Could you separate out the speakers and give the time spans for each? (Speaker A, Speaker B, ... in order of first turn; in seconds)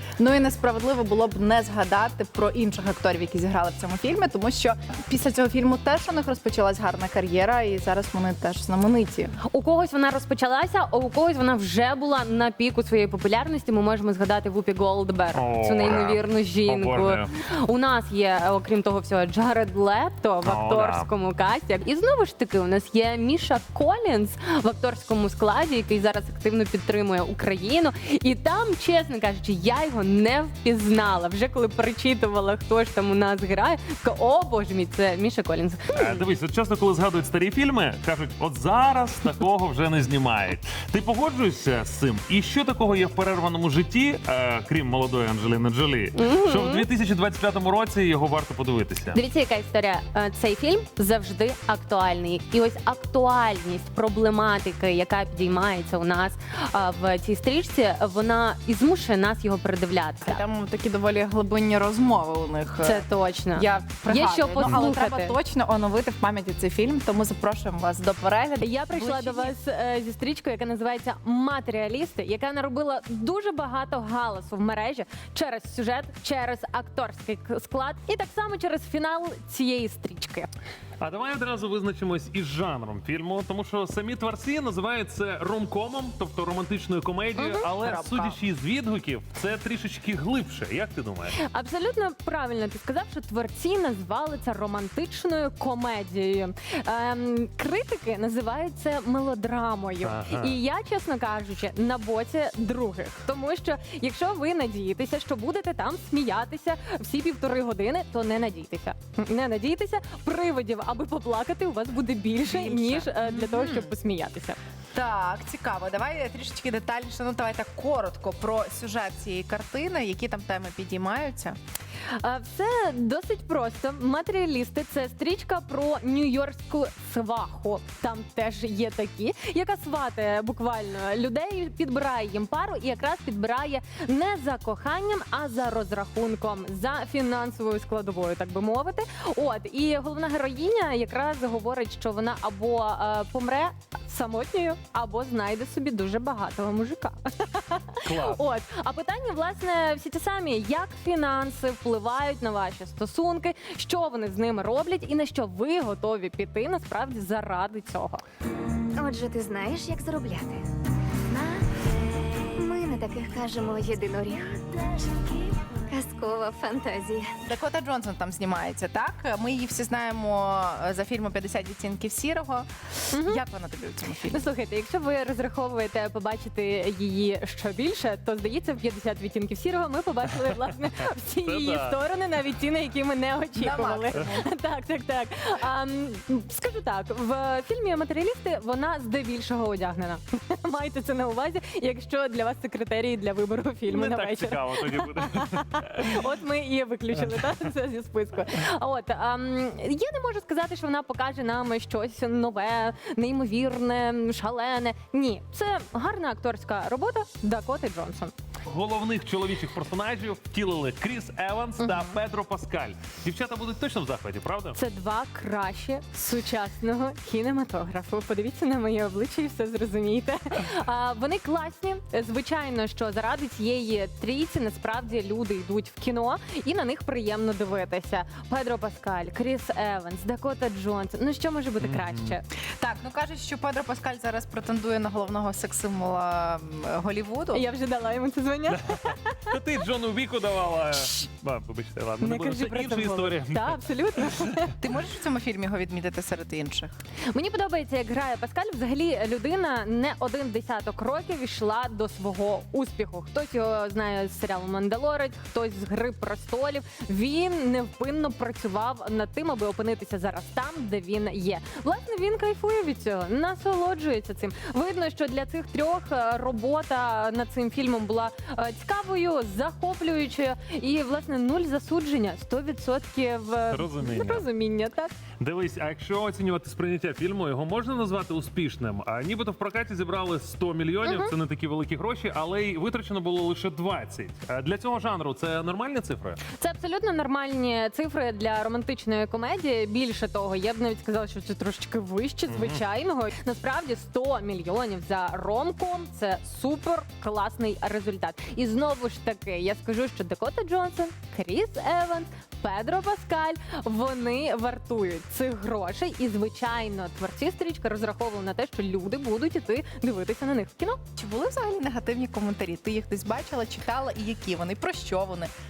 Speaker A: 0.2-9.3, 60.2-69.5, 87.8-88.4, 112.5-113.9, 114.9-121.6, 167.4-174.4, 183.6-184.5, 232.8-237.7, 244.8-246.9, 311.2-315.5
Speaker B: 9.4-36.3, 46.1-46.9, 49.1-60.4, 62.8-65.4, 68.6-80.5, 87.4-87.7, 91.4-114.6, 122.2-158.2, 173.1-173.4, 174.3-208.3, 211.8-212.2, 214.8-232.4, 237.5-239.5, 242.2-244.7, 247.3-275.1, 281.0-281.3, 286.6-311.0
Speaker C: 15.3-17.3, 20.4-21.1, 35.9-49.2, 81.0-91.4, 100.0-100.6, 148.0-148.4, 181.4-182.0, 193.9-196.3, 197.2-197.6, 208.7-214.8, 231.8-232.4, 238.7-244.5, 273.7-274.5, 275.4-286.4, 292.5-292.8
Speaker D: 158.9-160.7, 161.3-161.8, 162.4-165.3, 165.9-167.3